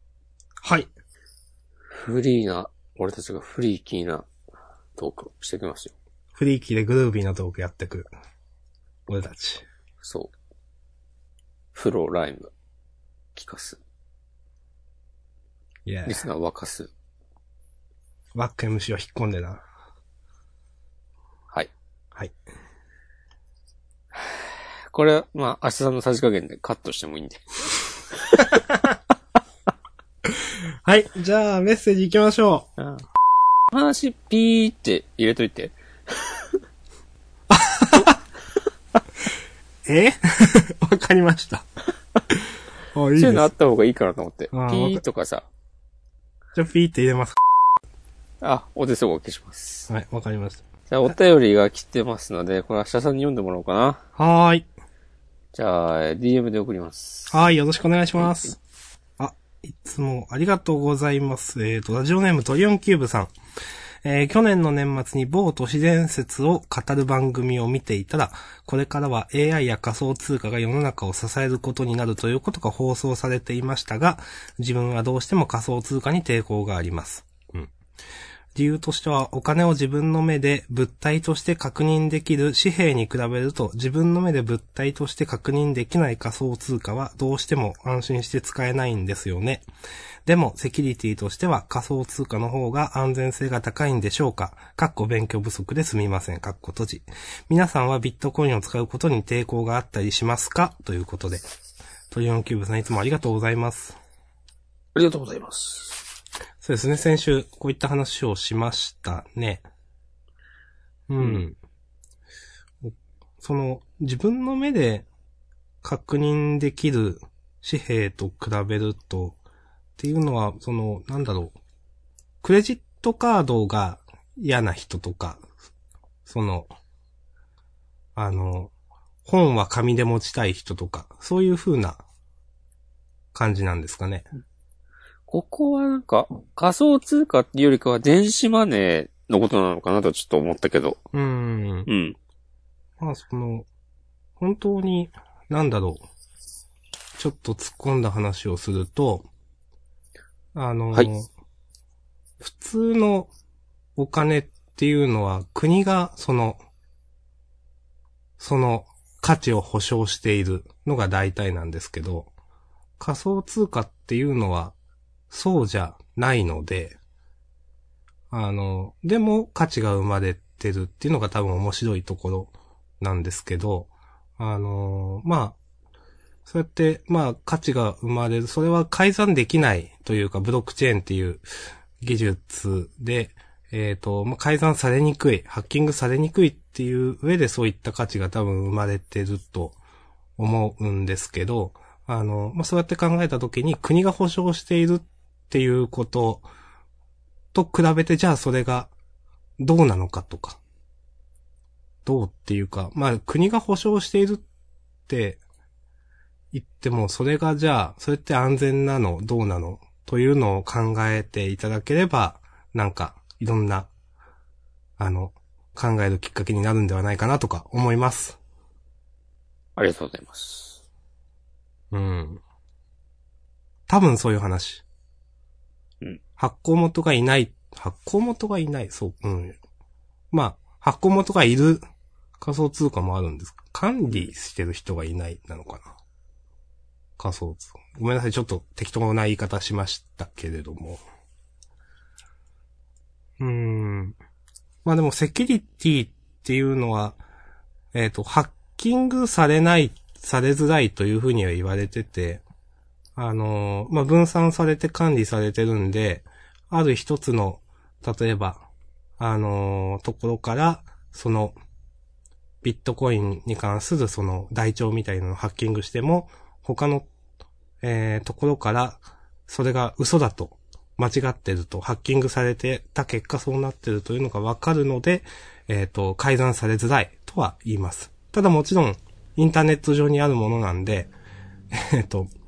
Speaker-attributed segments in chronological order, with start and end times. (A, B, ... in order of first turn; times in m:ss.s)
0:00.6-0:00.9 A
0:01.9-0:04.3 B
0:05.0-0:05.9 B
0:06.4-0:08.1 A
0:09.1-0:09.6 A
0:10.0-0:10.3 B
0:11.7-0:12.5 B
0:13.4-0:13.8 B
0:15.8-0:16.2 A
0:16.0-0:16.9 B
0:18.3-0:19.6 A
0:24.1-0:27.4 B
0:28.1-0:28.5 B
0:28.4-0:29.0 A
0:30.3-0:32.7 A
0:32.8-0:33.0 B
0:33.7-0:36.4 B
0:37.5-0:38.2 A
0:39.8-0:41.6 A
0:42.9-0:43.5 A
0:43.1-0:45.4 B
0:44.5-0:45.0 A
0:46.5-0:47.4 A
0:48.4-0:49.9 B
0:49.9-0:51.1 A
0:50.9-0:54.0 B
0:54.2-0:54.7 A
0:55.5-0:57.4 B
0:57.3-0:58.6 A
0:58.2-0:58.5 B
0:59.2-1:03.3 A
1:04.0-1:17.7 A
1:18.5-1:29.6 A
1:30.2-1:41.4 A
1:42.1-1:44.0 A
1:44.9-1:46.0 B
1:46.6-1:49.6 A
1:51.1-1:51.6 A
1:51.2-1:51.4 B
1:52.8-1:55.0 A
1:55.8-1:59.4 A
2:00.0-2:01.6 A
2:02.4-2:05.4 A
2:06.2-2:06.7 A
2:08.2-2:08.7 A
2:09.2-2:12.0 A
2:13.3-2:14.3 A
2:15.3-2:21.0 B
2:21.1-2:21.9 A
2:21.9-2:22.2 B
2:23.0-2:23.7 A
2:24.4-2:26.0 A
2:27.2-2:29.3 A
2:30.5-2:31.3 A
2:32.4-2:33.3 A
2:34.0-2:36.6 A
2:38.4-2:42.3 A
2:43.0-2:44.7 A
2:45.3-2:47.0 A
2:48.3-2:55.6 A
2:56.4-3:01.4 A
3:02.0-3:09.8 A
3:10.4-3:16.5 A
3:17.5-3:18.9 A
3:19.6-3:20.6 A
3:22.0-3:24.4 A
3:25.1-3:25.4 A
3:26.5-3:33.9 A
3:35.0-3:38.4 A
3:39.8-3:40.8 B
3:41.9-3:42.4 A
3:43.9-3:44.8 A
3:46.4-3:49.6 A
3:50.3-3:51.8 A
3:52.4-3:55.9 A
3:57.2-4:01.0 A
4:03.4-4:04.2 A
4:04.8-4:07.2 A
4:07.9-4:12.4 A
4:13.2-4:18.6 A
4:19.2-4:21.6 A
4:22.6-4:27.1 A
4:27.8-4:41.1 A
4:41.7-4:42.3 A